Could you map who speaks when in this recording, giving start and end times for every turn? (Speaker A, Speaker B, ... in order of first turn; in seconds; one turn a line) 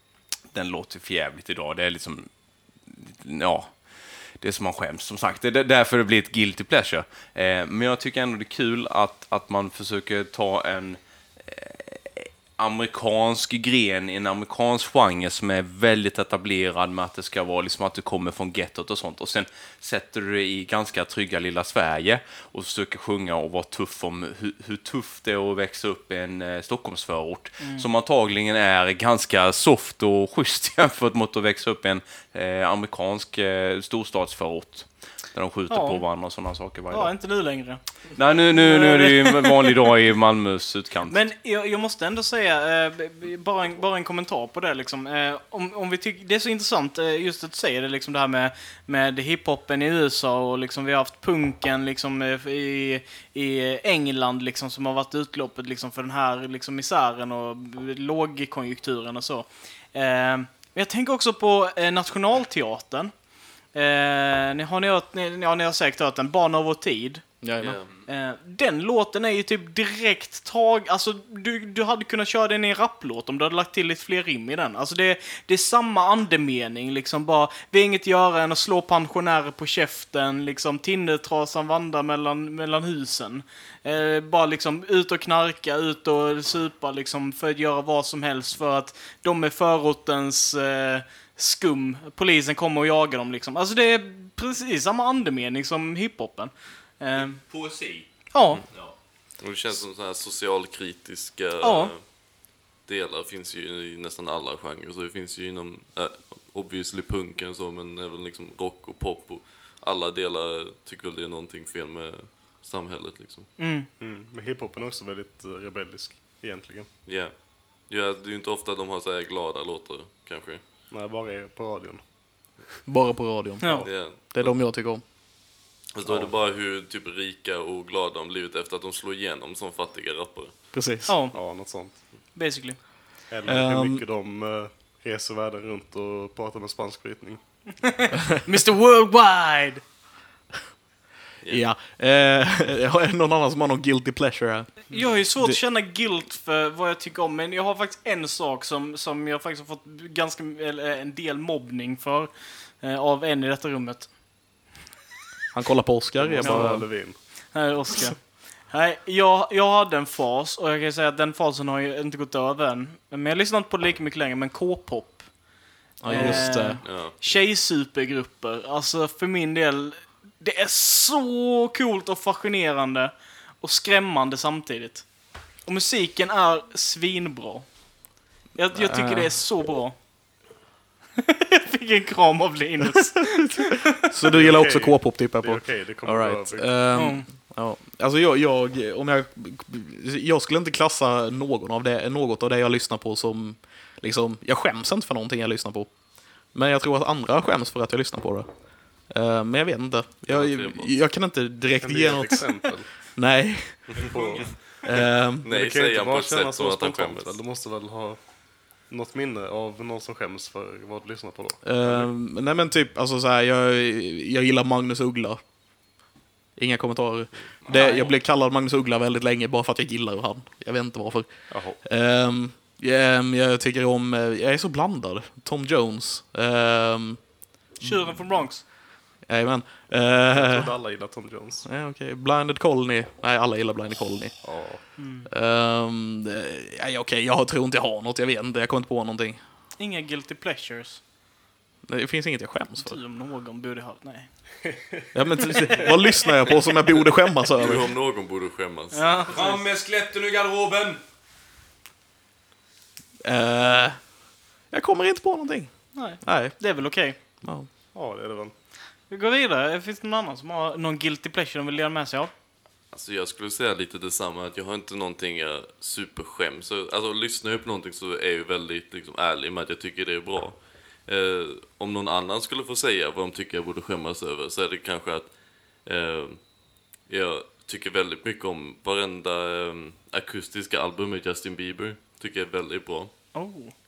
Speaker A: 0.5-41.3
Speaker B: 27.6-27.9
Speaker B: 35.7-39.7
Speaker B: 41.1-67.5
Speaker C: 67.4-67.8
Speaker D: 67.6-67.9
Speaker B: 68.1-98.6
Speaker A: 97.1-99.2
Speaker D: 98.5-113.6
Speaker B: 101.6-101.9
Speaker B: 113.6-113.9
Speaker E: 114.0-116.9
Speaker D: 117.1-120.6
Speaker E: 120.9-122.7
Speaker C: 122.9-126.3
Speaker B: 123.6-123.9
Speaker D: 123.8-124.8
Speaker D: 125.9-130.7
Speaker C: 130.7-131.2
Speaker B: 131.1-132.9
Speaker E: 131.3-132.0
Speaker E: 133.3-137.8
Speaker C: 133.4-134.1
Speaker B: 137.8-139.8
Speaker D: 141.4-141.7
Speaker C: 141.5-145.6
Speaker B: 144.9-154.6
Speaker C: 155.5-156.9
Speaker E: 156.2-157.2
Speaker B: 156.4-180.5
Speaker C: 166.0-166.8
Speaker D: 166.8-167.2
Speaker C: 178.7-179.4
Speaker B: 181.3-184.0
Speaker C: 184.0-204.2
Speaker E: 184.3-186.9
Speaker B: 186.9-187.3
Speaker D: 200.3-201.1
Speaker E: 201.8-203.0
Speaker E: 203.9-212.1
Speaker D: 204.2-207.4
Speaker C: 204.9-205.4
Speaker C: 211.6-216.0
Speaker C: 216.6-230.9
Speaker A: 217.7-217.9
Speaker B: 217.7-218.1
Speaker E: 221.5-221.8
Speaker B: 227.8-228.6
Speaker E: 230.3-231.7
Speaker C: 231.7-239.4
Speaker E: 234.4-234.8
Speaker B: 235.0-235.3
Speaker B: 239.8-241.0
Speaker C: 241.8-243.0
Speaker B: 242.8-244.8
Speaker C: 245.1-247.9
Speaker B: 245.8-246.1
Speaker D: 247.5-249.2
Speaker B: 248.9-249.6
Speaker A: 249.3-251.0
Speaker C: 253.2-257.7
Speaker B: 255.9-257.2
Speaker E: 257.9-258.5
Speaker B: 259.0-262.3
Speaker D: 262.9-283.4
Speaker B: 283.3-283.7